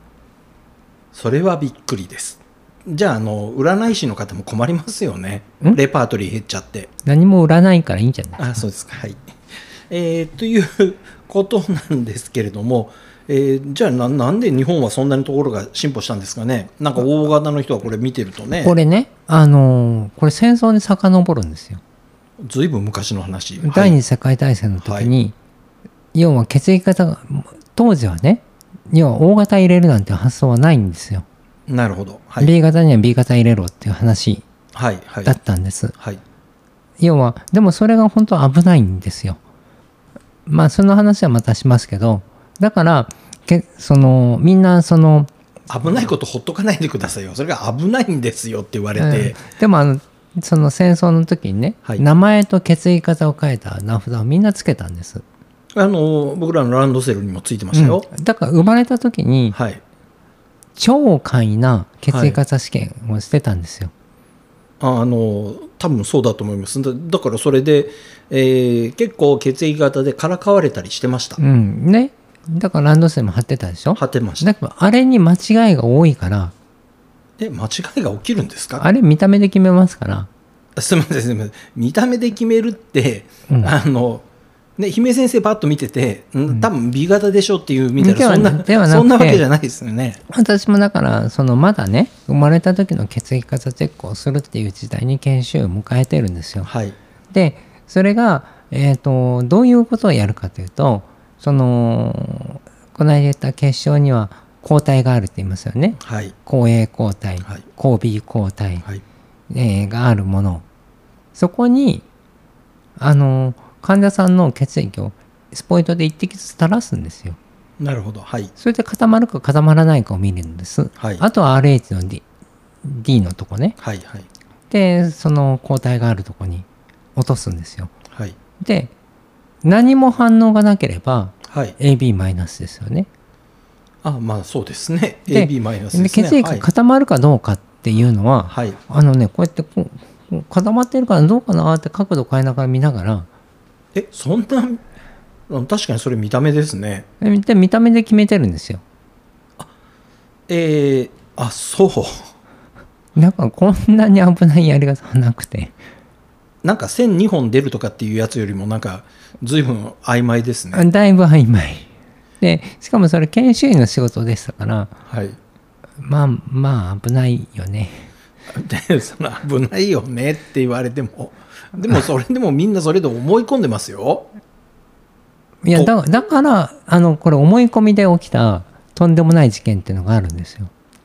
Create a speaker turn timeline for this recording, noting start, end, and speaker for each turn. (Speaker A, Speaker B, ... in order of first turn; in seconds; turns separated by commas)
Speaker A: 1.1-6.9, Speaker B: 7.0-8.6, Speaker A: 8.4-9.2, Speaker A: 9.9-18.7, Speaker B: 18.5-21.8, Speaker A: 22.4-24.0, Speaker B: 23.6-25.3, Speaker A: 24.8-25.1, Speaker B: 26.1-31.2, Speaker A: 31.7-32.5, Speaker B: 32.4-34.4, Speaker A: 34.7-35.4, Speaker B: 35.2-35.9, Speaker B: 37.0-39.4, Speaker B: 40.5-45.3, Speaker A: 45.7-49.4, Speaker B: 49.0-55.2, Speaker A: 55.7-58.1, Speaker B: 57.7-59.6, Speaker A: 59.5-59.8, Speaker B: 60.8-63.9, Speaker A: 62.1-62.4, Speaker A: 64.8-71.4, Speaker B: 71.4-76.5, Speaker A: 74.0-74.5, Speaker A: 77.4-78.8, Speaker B: 78.8-80.3, Speaker A: 80.8-84.2, Speaker B: 83.5-83.7, Speaker A: 84.8-90.2, Speaker B: 88.0-89.4, Speaker B: 90.3-96.7, Speaker A: 96.6-97.0, Speaker B: 97.3-108.8, Speaker A: 106.0-106.3, Speaker B: 109.5-110.6, Speaker B: 111.3-112.0, Speaker B: 113.0-117.4, Speaker A: 117.8-118.5, Speaker B: 118.6-122.2, Speaker A: 121.0-121.2, Speaker B: 122.8-123.8, Speaker A: 123.8-124.3, Speaker B: 124.7-127.9, Speaker B: 128.6-128.9, Speaker B: 129.6-133.1, Speaker A: 131.5-131.8, Speaker A: 134.0-136.6, Speaker B: 135.3-143.3, Speaker A: 138.5-138.8, Speaker A: 143.9-144.8, Speaker A: 145.5-147.1, Speaker B: 147.2-148.8, Speaker A: 150.5-152.3, Speaker B: 153.1-155.8, Speaker A: 156.6-160.9, Speaker B: 160.7-161.9, Speaker B: 162.4-164.9, Speaker A: 165.1-165.3, Speaker B: 166.0-168.1, Speaker A: 168.5-174.3, Speaker B: 175.6-180.7